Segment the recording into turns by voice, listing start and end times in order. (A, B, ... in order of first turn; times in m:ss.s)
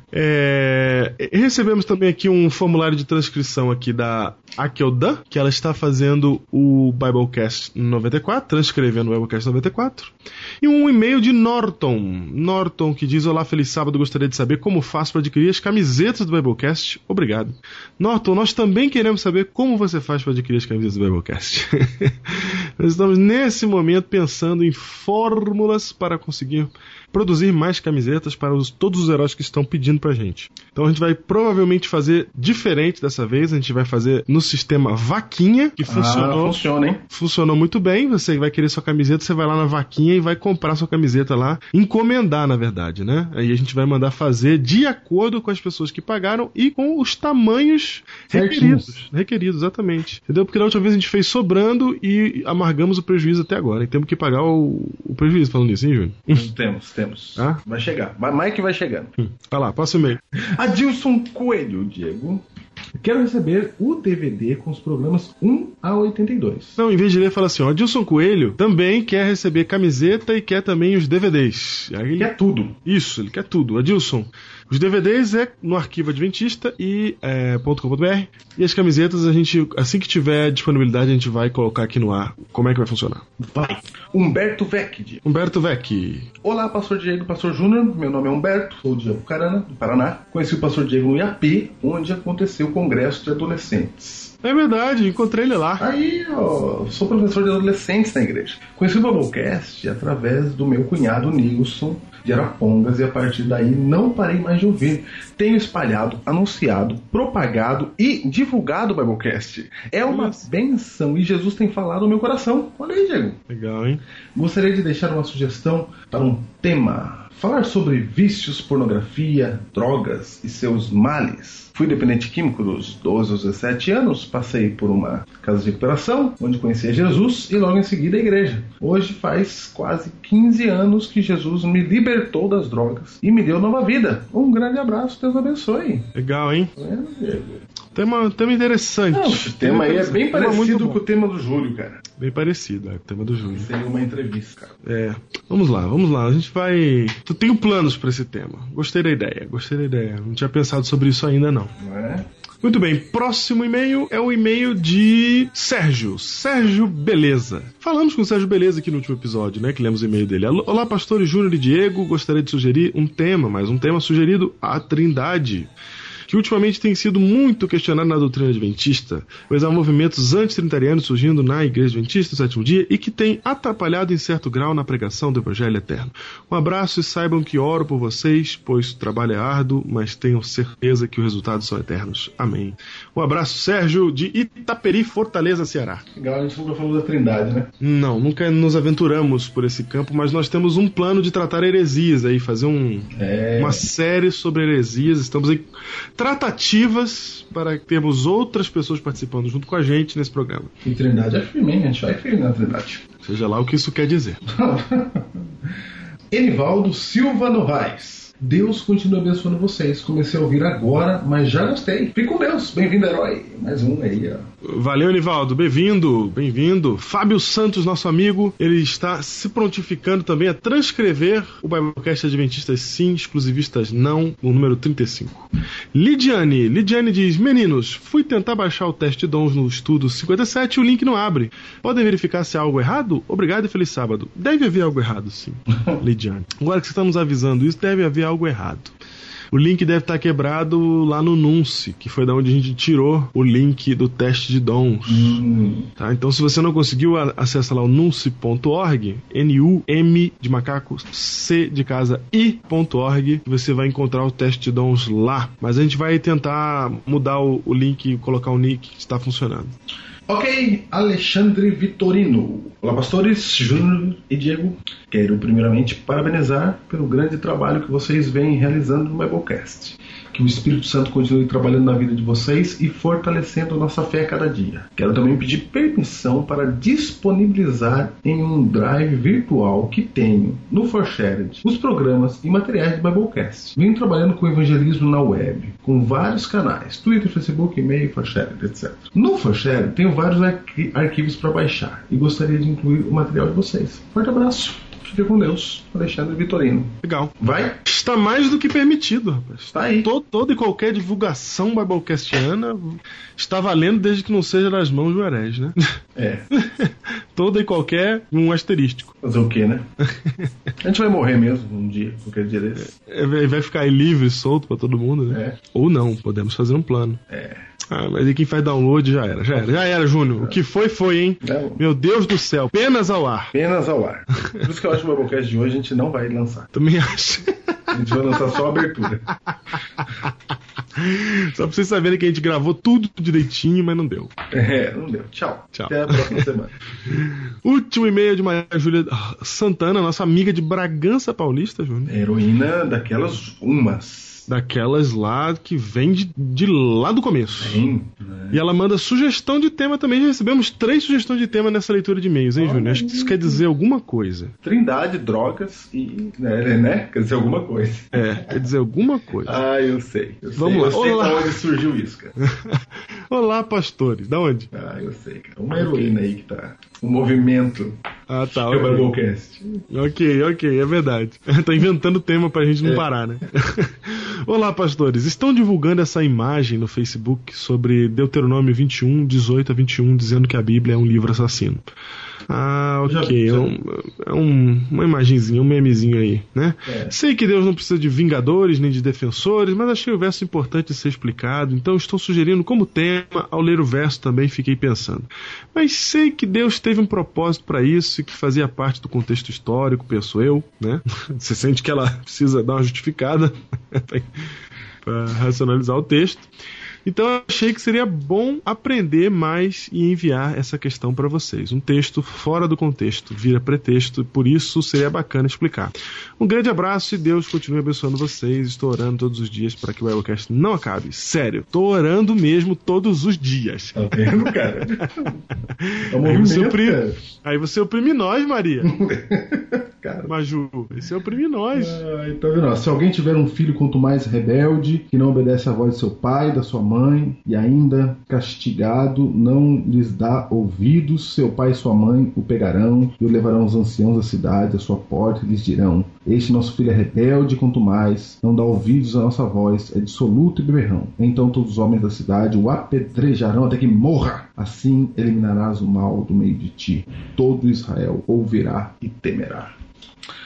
0:00.1-0:56.5 A
0:35.8-0:37.0 B
0:48.3-0:49.0 B
0:56.3-0:59.1 B
0:59.2-1:00.2 A
1:00.4-1:02.4 B
1:03.0-1:06.8 B
1:06.8-1:12.3 A
1:12.2-1:12.8 B
1:12.8-1:23.7 A
1:23.6-1:25.2 B
1:25.2-1:26.3 A
1:26.4-1:34.3 B
1:34.4-1:35.8 A
1:35.8-1:53.4 B
1:50.1-1:50.5 A
1:53.5-1:54.0 A
1:54.4-2:16.1 B
2:16.2-2:16.7 A
2:16.8-2:17.6 B
2:17.9-2:21.0 A
2:19.1-2:22.0 B
2:22.2-2:23.7 A
2:23.5-2:24.8 B
2:24.8-2:31.7 A
2:31.8-2:32.3 B
2:32.6-2:45.7 A
2:46.3-3:06.0 A
3:06.1-3:07.7 B
3:07.8-3:20.7 A
3:13.1-3:13.8 B
3:20.8-3:23.0 B
3:23.2-3:24.4 A
3:24.5-3:25.5 B
3:26.3-3:34.5 B
3:34.6-3:59.0 A
3:59.5-4:05.4 A
4:05.1-4:05.9 B
4:06.0-4:19.7 A
4:20.3-4:57.8 B
4:57.0-4:57.3 A
4:57.8-5:05.8 A
4:59.7-5:00.1 B
5:06.2-5:06.5 B
5:06.5-5:09.1 A
5:09.2-5:09.9 B
5:10.1-5:10.5 A
5:10.8-5:12.9 B
5:12.8-5:17.2 A
5:15.3-5:15.6 B
5:17.3-5:17.7 B
5:17.9-5:23.5 A
5:19.5-5:20.6 B
5:21.4-5:21.8 B
5:23.5-5:26.7 B
5:26.7-5:27.9 A
5:27.9-5:29.3 B
5:29.7-5:30.4 A
5:30.9-5:34.3 A
5:34.5-5:36.7 B
5:35.7-5:36.4 A
5:37.0-5:42.2 A
5:42.1-5:44.5 B
5:44.5-5:47.8 A
5:47.6-5:48.6 B
5:48.5-5:54.5 A
5:52.6-5:53.6 B
5:54.6-5:58.6 B
5:58.1-5:59.6 A
5:59.4-6:02.3 B
6:00.6-6:01.6 A
6:02.4-6:04.7 A
6:04.7-6:09.8 B
6:05.7-6:06.2 A
6:08.3-6:09.1 A
6:09.9-6:21.8 A
6:22.5-6:44.3 A
6:23.1-6:23.7 B
6:26.9-6:27.1 B
6:45.0-6:46.5 A
6:47.0-7:05.1 A
7:04.0-7:05.4 B
7:05.8-7:08.9 A
7:06.1-7:07.2 B
7:08.8-7:10.3 B
7:10.3-7:12.0 A
7:11.7-7:39.7 B